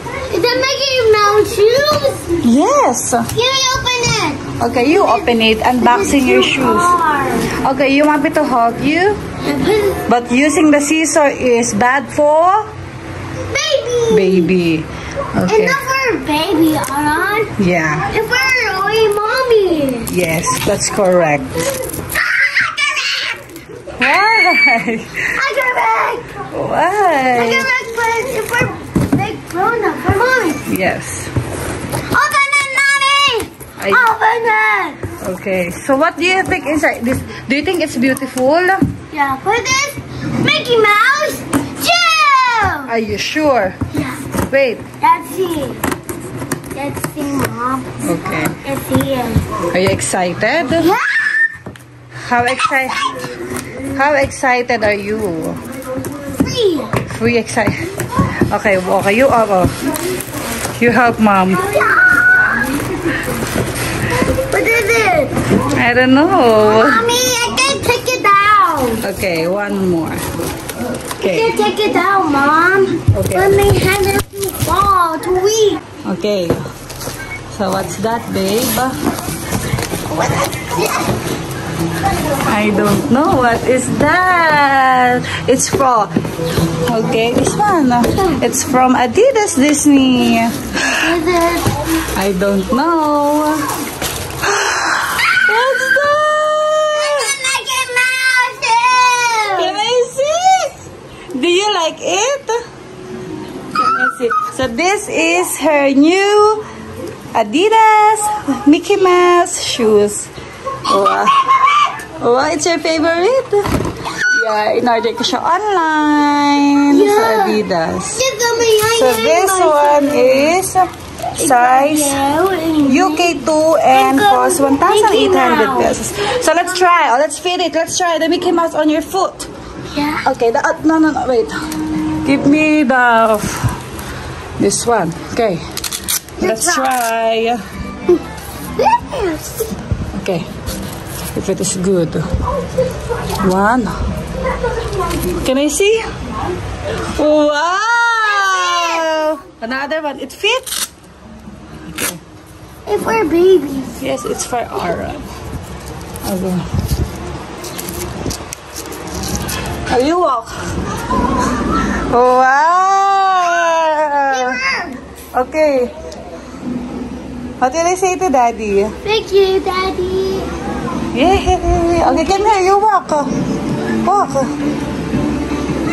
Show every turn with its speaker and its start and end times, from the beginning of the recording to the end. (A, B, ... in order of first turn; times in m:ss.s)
0:00.3-0:02.4 A
0:02.4-0:03.3 B
0:03.3-0:05.3 A
0:04.6-0:07.0 B
0:05.8-0:07.5 A
0:07.5-0:09.2 B
0:09.4-0:10.0 A
0:10.1-0:12.7 B
0:13.5-0:14.5 A
0:14.1-0:15.8 B
0:15.5-0:17.5 A
0:17.6-0:18.1 B
0:18.1-0:20.1 A
0:20.1-0:21.6 B
0:22.2-0:23.4 A
0:24.0-0:25.3 B
0:25.3-0:26.4 A
0:26.5-0:27.7 B
0:27.3-0:30.6 A
0:30.7-0:31.3 B
0:32.1-0:35.0 A
0:33.8-0:34.1 B
0:35.2-0:38.8 B
0:39.1-0:42.9 A
0:42.9-0:43.8 B
0:43.9-0:44.2 A
0:44.5-0:44.8 B
0:45.0-0:45.8 A
0:46.7-0:48.0 A
0:48.0-0:48.6 B
0:48.6-0:49.4 A
0:49.7-0:50.9 B
0:50.8-0:51.5 A
0:52.3-0:53.1 B
0:53.9-0:55.6 B
0:56.3-0:57.0 A
0:57.1-0:57.9 B
0:58.5-0:59.7 B
1:00.8-1:01.7 B
1:01.5-1:02.6 A
1:04.2-1:05.4 A
1:05.7-1:07.1 B
1:06.6-1:09.0 A
1:09.0-1:10.2 B
1:11.2-1:15.8 A
1:11.2-1:11.6 B
1:13.1-1:13.6 B
1:16.0-1:16.6 B
1:17.5-1:19.0 B
1:20.1-1:21.2 A
1:22.4-1:26.1 B
1:26.8-1:31.1 B
1:31.0-1:31.8 A
1:32.1-1:33.8 B
1:34.4-1:37.4 B
1:36.9-1:39.8 A
1:39.6-1:42.6 B
1:43.7-1:46.6 B
1:47.3-1:50.3 B
1:50.9-1:51.4 B
1:52.0-1:58.2 B
1:56.9-1:57.6 A
1:58.1-2:00.6 A
1:58.9-2:02.2 B
2:01.4-2:03.4 A
2:02.8-2:09.5 B
2:03.9-2:06.0 A
2:09.9-2:10.2 A
2:10.2-2:13.8 B
2:14.6-2:15.6 B
2:16.4-2:16.9 A
2:16.4-2:17.6 B
2:18.8-2:19.7 A
2:20.2-2:20.5 B
2:21.4-2:22.3 B
2:23.4-2:24.0 B
2:25.2-2:26.0 B
2:26.9-2:30.9 B
2:28.3-2:29.1 A
2:31.9-2:32.2 B
2:32.8-2:34.0 A
2:34.0-2:35.2 B
2:36.2-2:36.7 B
2:39.9-2:40.6 B
2:41.6-2:44.6 B
2:44.3-2:45.0 A
2:45.3-2:45.9 B
2:47.6-2:48.9 B
2:49.0-2:50.5 A
2:51.1-2:53.3 B
2:52.0-2:52.5 A
2:54.0-2:54.5 B